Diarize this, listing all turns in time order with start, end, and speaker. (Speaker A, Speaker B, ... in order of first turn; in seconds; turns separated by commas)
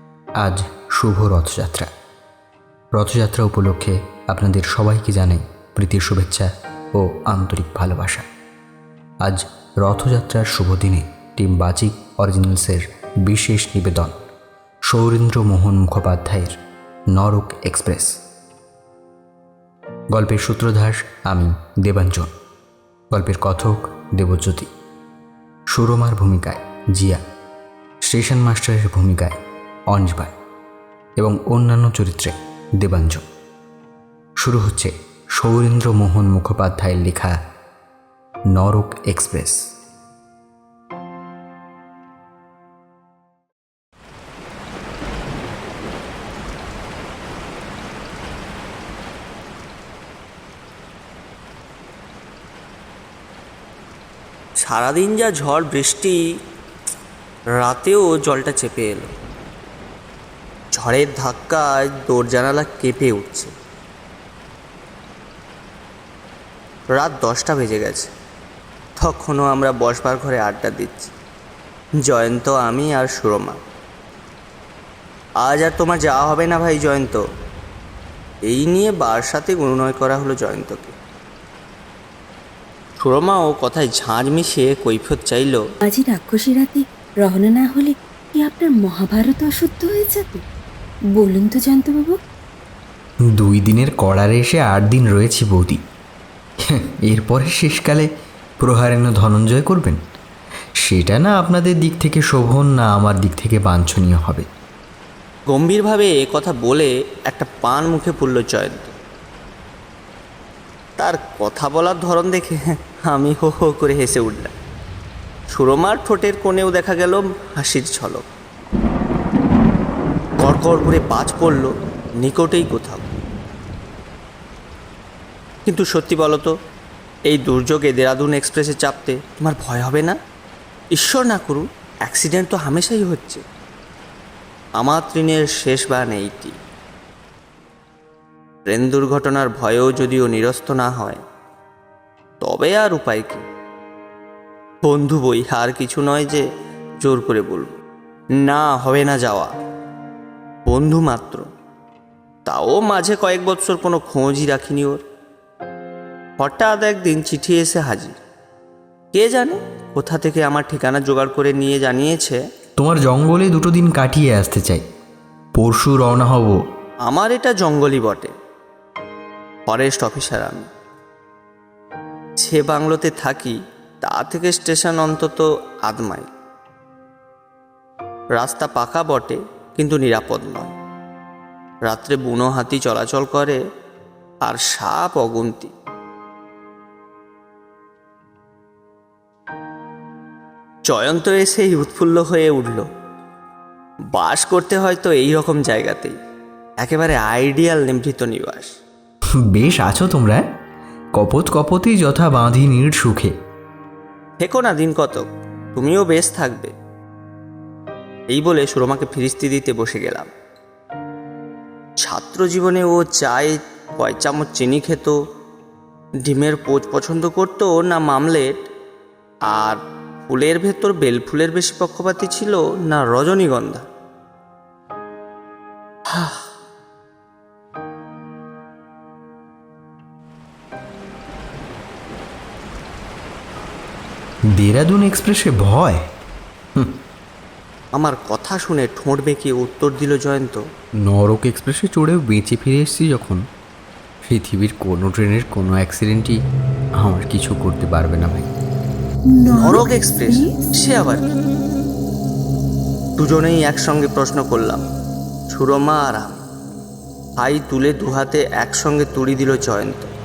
Speaker A: 0.4-1.9, Speaker A: 2.9-8.3, Speaker A: 9.2-14.2, Speaker A: 14.9-16.6, Speaker A: 17.1-18.2, Speaker A: 20.1-22.3, Speaker A: 23.1-24.7, Speaker A: 25.7-27.2, Speaker A: 28.0-29.4, Speaker A: 29.9-30.3, Speaker A: 31.2-33.2, Speaker A: 34.4-37.4, Speaker A: 38.5-39.7, Speaker B: 54.6-56.2, Speaker B: 57.5-59.1, Speaker B: 60.7-63.5, Speaker B: 66.9-68.1, Speaker B: 69.0-71.1, Speaker B: 72.0-73.6, Speaker B: 75.4-77.2, Speaker B: 78.5-81.0, Speaker B: 83.0-85.6, Speaker C: 85.8-90.4, Speaker C: 91.1-92.2, Speaker A: 93.3-95.8, Speaker A: 96.7-98.1, Speaker A: 98.6-100.0, Speaker A: 100.8-104.5, Speaker B: 105.5-109.0, Speaker B: 111.0-114.5, Speaker B: 115.5-118.3, Speaker B: 120.4-123.1, Speaker B: 125.7-126.5, Speaker B: 127.3-130.2, Speaker B: 130.9-133.4, Speaker B: 134.8-136.6, Speaker B: 138.7-141.2, Speaker B: 142.4-143.4, Speaker B: 144.8-146.4, Speaker B: 147.0-147.8, Speaker B: 148.4-149.5, Speaker B: 150.7-151.5, Speaker B: 152.4-155.0, Speaker B: 156.4-158.2, Speaker B: 159.1-162.4, Speaker A: 162.8-164.8, Speaker A: 165.6-166.6, Speaker B: 167.1-168.3, Speaker B: 169.7-170.7, Speaker B: 172.4-176.3, Speaker B: 178.4-180.7, Speaker B: 181.9-183.6, Speaker B: 184.4-185.7, Speaker B: 190.9-192.8, Speaker B: 194.1-196.2, Speaker B: 196.8-198.7, Speaker A: 199.5-200.4, Speaker A: 201.1-203.3, Speaker B: 204.4-206.7, Speaker B: 208.3-210.3, Speaker B: 212.0-215.2, Speaker B: 216.2-218.6, Speaker B: 219.5-223.9, Speaker B: 226.1-226.4, Speaker A: 234.6-236.0, Speaker B: 237.9-240.6, Speaker A: 241.0-243.4, Speaker A: 244.2-246.4, Speaker A: 247.0-248.5, Speaker C: 249.3-249.7, Speaker B: 249.5-251.2, Speaker B: 253.2-254.8, Speaker B: 255.5-256.4, Speaker B: 257.4-260.1